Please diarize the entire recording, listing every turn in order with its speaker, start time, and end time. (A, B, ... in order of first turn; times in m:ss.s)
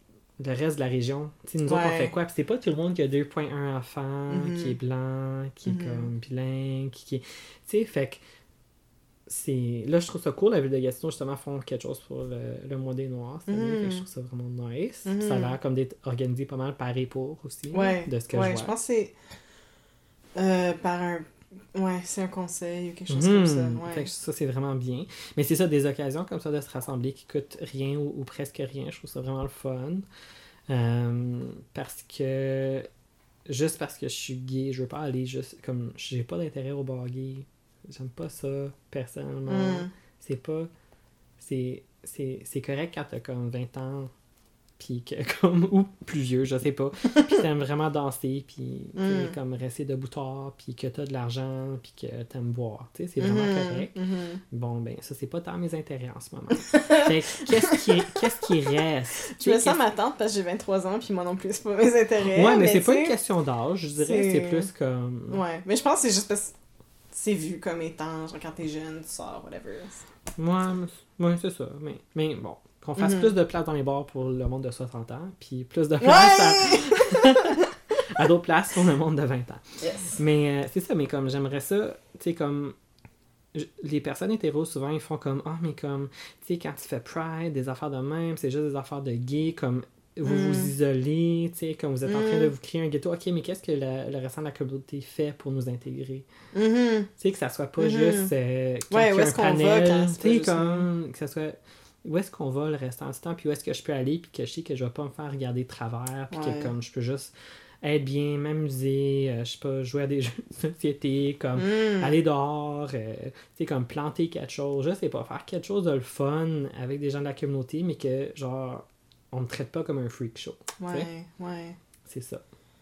0:00.4-0:08.2 A
0:01.6-0:02.1 B
0:04.3-0:04.8 B
0:05.6-0:06.1 B
0:09.3-0:18.7 A
0:13.5-0:14.0 B
0:15.0-0:15.5 B
0:17.7-0:19.2 B
0:20.3-0:24.1 B
0:23.1-0:30.0 A
0:30.7-0:32.9 A
0:33.4-0:40.7 A
0:39.5-0:39.9 B
0:41.4-0:44.1 A
0:44.8-0:53.9 A
0:49.0-0:49.3 B
0:53.2-0:54.4 B
0:54.5-0:59.8 A
0:56.6-0:58.2 B
0:59.4-1:03.2 B
1:02.2-1:05.4 A
1:04.0-1:04.7 B
1:05.3-1:06.6 B
1:07.1-1:10.0 B
1:10.4-1:22.8 A
1:13.0-1:13.3 B
1:16.0-1:17.7 B
1:19.8-1:20.2 B
1:23.5-1:36.2 A
1:30.2-1:30.7 B
1:32.0-1:32.5 B
1:36.5-1:37.1 B
1:37.2-2:01.1 A
1:37.8-1:38.3 B
1:38.9-1:40.9 B
1:46.3-1:46.7 B
1:51.6-1:52.1 B
2:00.8-2:01.8 B
2:02.0-2:02.4 A